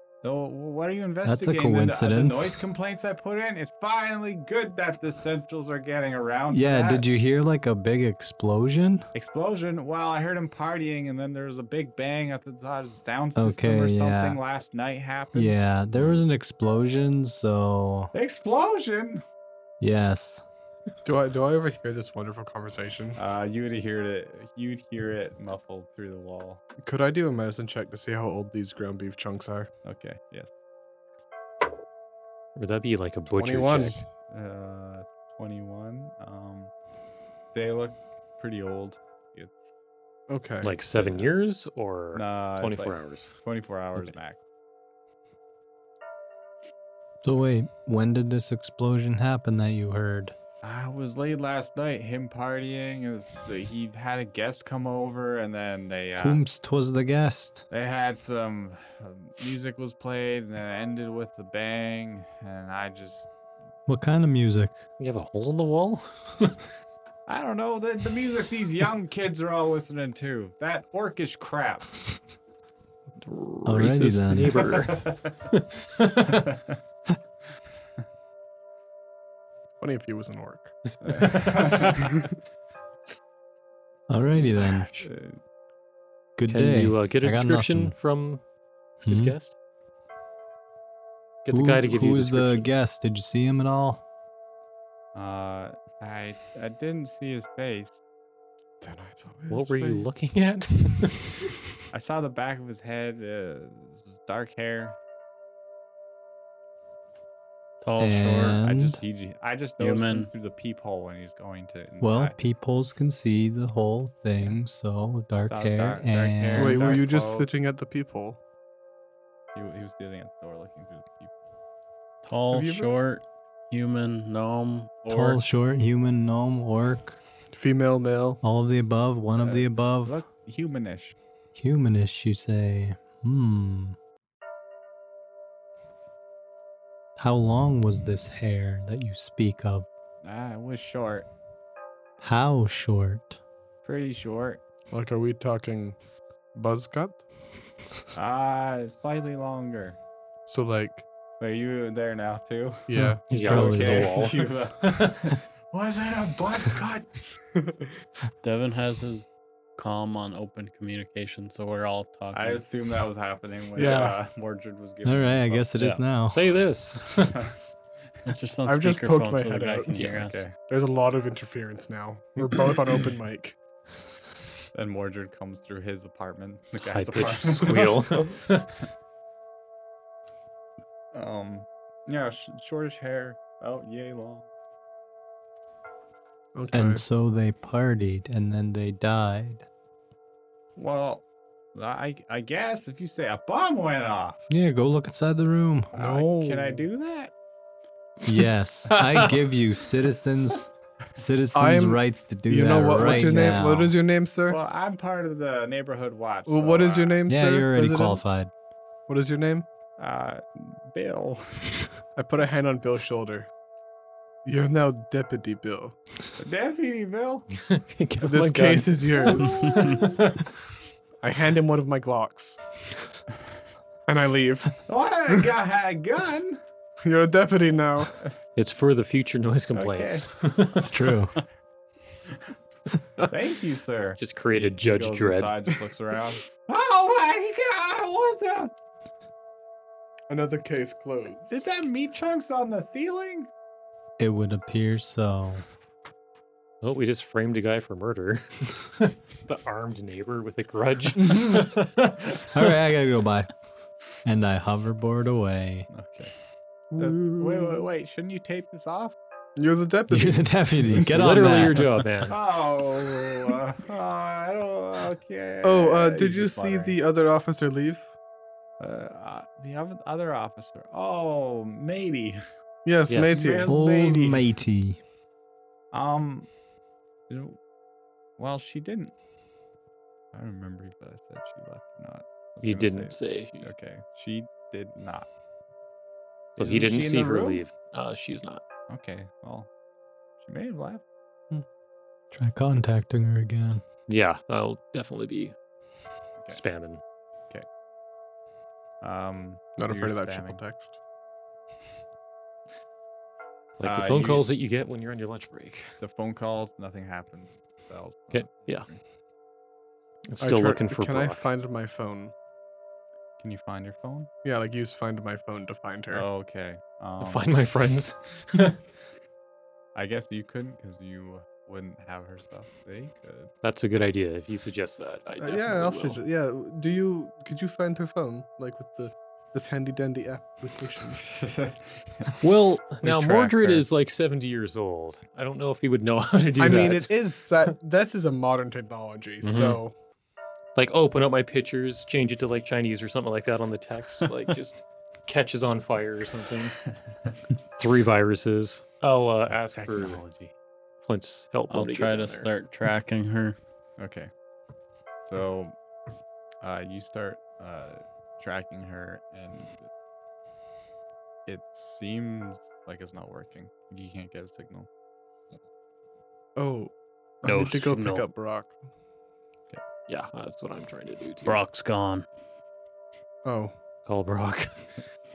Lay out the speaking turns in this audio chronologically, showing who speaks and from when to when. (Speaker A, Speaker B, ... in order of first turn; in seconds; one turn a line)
Speaker A: 0.2-7.0
Speaker B: 1.2-2.6
Speaker B: 6.5-9.1
Speaker A: 9.1-16.2
Speaker B: 13.3-14.4
Speaker B: 15.3-18.1
Speaker A: 18.1-19.2
Speaker B: 19.8-20.4
Speaker C: 21.0-23.2
Speaker A: 23.1-26.6
Speaker C: 26.8-29.7
Speaker A: 29.8-30.5
Speaker D: 32.5-34.0
Speaker C: 33.3-34.0
Speaker A: 34.3-36.7
Speaker A: 37.5-39.7
Speaker C: 40.3-40.8
Speaker D: 40.6-43.3
Speaker A: 41.0-41.2
Speaker A: 42.1-44.4
Speaker B: 47.2-50.3
Speaker A: 50.6-56.4
Speaker B: 56.2-57.6
Speaker A: 57.7-63.3
Speaker B: 63.9-64.8
Speaker D: 65.0-66.5
Speaker A: 67.3-71.9
Speaker D: 73.2-76.5
Speaker B: 73.6-74.6
Speaker A: 74.8-75.3
Speaker A: 76.4-76.6
Speaker C: 79.8-80.7
Speaker A: 81.0-82.0
Speaker D: 81.1-82.1
Speaker B: 84.1-84.9
Speaker D: 84.3-85.1
Speaker A: 85.0-85.4
Speaker B: 86.3-88.0
Speaker D: 86.5-88.4
Speaker B: 89.0-89.3
Speaker D: 89.1-89.5
Speaker D: 91.4-92.7
Speaker B: 91.5-94.0
Speaker A: 95.1-98.0
Speaker C: 98.8-100.2
Speaker D: 99.5-101.5
Speaker A: 101.9-105.0
Speaker E: 107.8-108.6
Speaker B: 108.0-109.0
Speaker A: 108.6-112.3
Speaker E: 109.8-110.3
Speaker B: 112.0-117.0
Speaker A: 115.5-117.5
Speaker C: 116.5-118.4
Speaker A: 119.5-121.3
Speaker E: 122.2-125.5
Speaker C: 122.5-122.9
Speaker B: 125.1-127.2
Speaker C: 127.5-128.4
Speaker B: 128.4-130.2
Speaker A: 129.4-131.2
Speaker B: 131.5-134.0
Speaker B: 137.2-139.9
Speaker A: 140.2-141.3
Speaker B: 142.2-143.4
Speaker A: 143.8-144.6
Speaker C: 144.9-145.9
Speaker C: 146.5-147.2
Speaker A: 148.1-150.0
Speaker C: 150.4-151.0
Speaker A: 151.4-157.2
Speaker C: 152.9-153.2
Speaker B: 152.9-154.2
Speaker D: 153.3-155.3
Speaker E: 158.4-162.6
Speaker A: 162.3-165.8
Speaker C: 163.8-164.2
Speaker D: 163.8-164.1
Speaker B: 165.0-166.5
Speaker D: 165.8-167.4
Speaker E: 168.3-170.4
Speaker C: 168.7-173.6
Speaker A: 170.0-170.5
Speaker A: 174.7-178.3
Speaker D: 176.7-178.7
Speaker A: 181.1-184.5
Speaker C: 186.5-187.0
Speaker B: 186.7-189.7
Speaker A: 190.8-191.2
Speaker A: 191.7-194.4
Speaker B: 194.5-195.9
Speaker C: 195.9-196.8
Speaker A: 195.9-197.3
Speaker B: 198.2-203.9
Speaker D: 198.9-199.4
Speaker C: 201.5-204.6
Speaker A: 204.5-207.2
Speaker C: 206.5-208.2
Speaker B: 207.3-208.5
Speaker C: 209.1-209.7
Speaker A: 210.0-211.7
Speaker C: 212.2-213.5
Speaker C: 214.4-215.9
Speaker A: 216.4-217.5
Speaker D: 217.6-220.5
Speaker C: 218.2-219.8
Speaker C: 221.2-222.6
Speaker C: 224.1-224.8
Speaker A: 224.8-226.6
Speaker C: 227.0-228.1
Speaker D: 228.6-230.9
Speaker A: 229.8-230.2
Speaker B: 230.8-231.3
Speaker D: 233.2-233.5
Speaker A: 233.3-238.7
Speaker D: 234.2-235.6
Speaker C: 240.3-241.6
Speaker A: 241.5-243.5
Speaker B: 244.2-245.6
Speaker D: 246.8-252.7
Speaker B: 252.5-253.5
Speaker B: 254.2-255.9
Speaker A: 255.9-256.3
Speaker C: 256.9-257.8
Speaker A: 256.9-259.1
Speaker C: 259.6-260.5
Speaker B: 260.1-262.0
Speaker D: 260.9-262.4
Speaker A: 262.3-266.9
Speaker C: 265.6-268.1
Speaker A: 268.8-272.4
Speaker C: 272.8-273.7
Speaker D: 273.1-273.4
Speaker A: 273.3-274.4
Speaker B: 273.7-275.0
Speaker A: 275.9-276.5
Speaker A: 277.3-277.6
Speaker A: 278.4-279.1
Speaker A: 280.3-285.3
Speaker D: 282.6-283.7
Speaker D: 286.6-288.6
Speaker A: 286.6-287.6
Speaker A: 288.9-289.7
Speaker A: 290.4-291.0
Speaker B: 292.3-293.8
Speaker D: 294.1-295.5
Speaker D: 296.5-297.0
Speaker A: 299.0-300.6
Speaker C: 299.8-301.0
Speaker D: 303.8-306.0
Speaker A: 303.8-304.4
Speaker A: 306.0-309.0
Speaker D: 308.3-308.9
Speaker D: 310.3-311.5
Speaker C: 310.4-312.3
Speaker A: 313.4-314.3
Speaker C: 314.4-316.3
Speaker A: 316.1-317.4
Speaker D: 317.2-318.8
Speaker A: 319.9-323.5
Speaker D: 323.6-326.2
Speaker C: 325.4-331.2
Speaker A: 331.2-332.4
Speaker D: 332.4-337.7
Speaker A: 333.0-333.8
Speaker C: 336.6-339.9
Speaker D: 339.4-339.8
Speaker D: 340.7-346.8
Speaker D: 347.8-350.2
Speaker A: 349.7-350.5
Speaker D: 351.0-352.5
Speaker E: 351.7-353.6
Speaker A: 354.0-354.3
Speaker A: 355.2-355.7
Speaker A: 356.6-359.9
Speaker A: 361.4-364.9
Speaker C: 366.6-368.8
Speaker D: 367.4-368.2
Speaker D: 370.1-371.6
Speaker E: 371.4-372.2
Speaker C: 373.4-373.7
Speaker D: 374.1-375.0